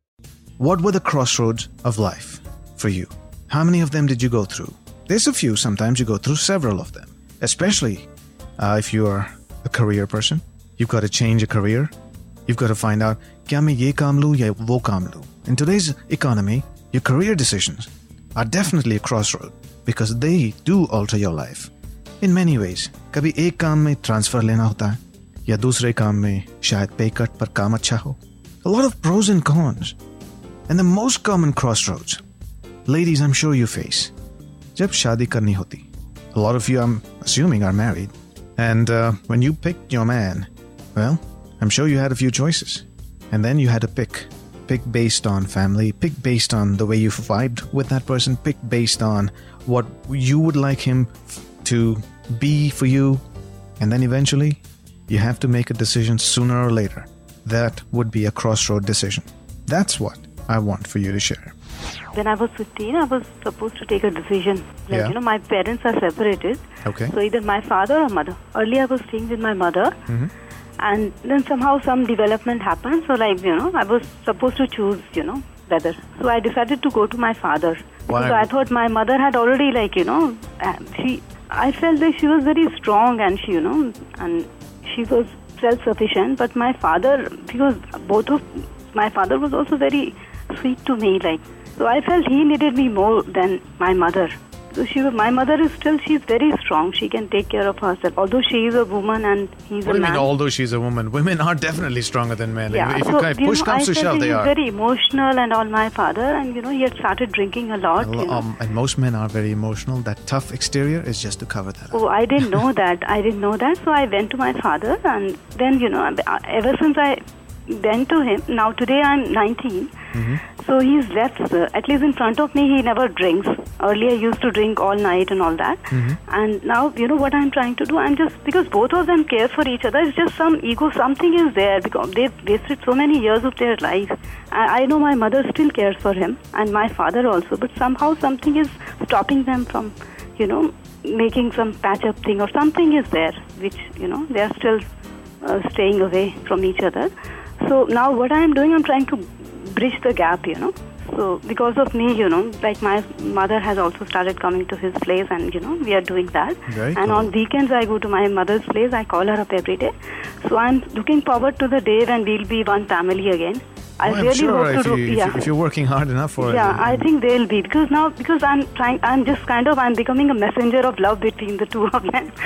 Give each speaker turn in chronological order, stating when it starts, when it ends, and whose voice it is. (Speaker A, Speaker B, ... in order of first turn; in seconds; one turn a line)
Speaker A: 0.6-8.1
Speaker A: 8.6-11.9
Speaker A: 12.5-21.7
Speaker A: 22.2-29.9
Speaker A: 30.7-32.2
Speaker A: 32.9-34.1
Speaker A: 34.7-53.2
Speaker A: 53.8-61.5
Speaker B: 62.1-70.0
Speaker A: 64.9-65.2
Speaker A: 66.8-67.1
Speaker B: 70.8-100.3
Speaker A: 78.1-78.5
Speaker A: 99.8-104.5
Speaker B: 102.7-108.4
Speaker A: 108.0-112.0
Speaker B: 111.9-119.9
Speaker A: 120.1-120.4
Speaker B: 120.5-144.8
Speaker A: 125.9-126.2
Speaker B: 145.4-165.4
Speaker A: 156.7-157.3
Speaker A: 164.1-167.1
Speaker B: 166.4-172.3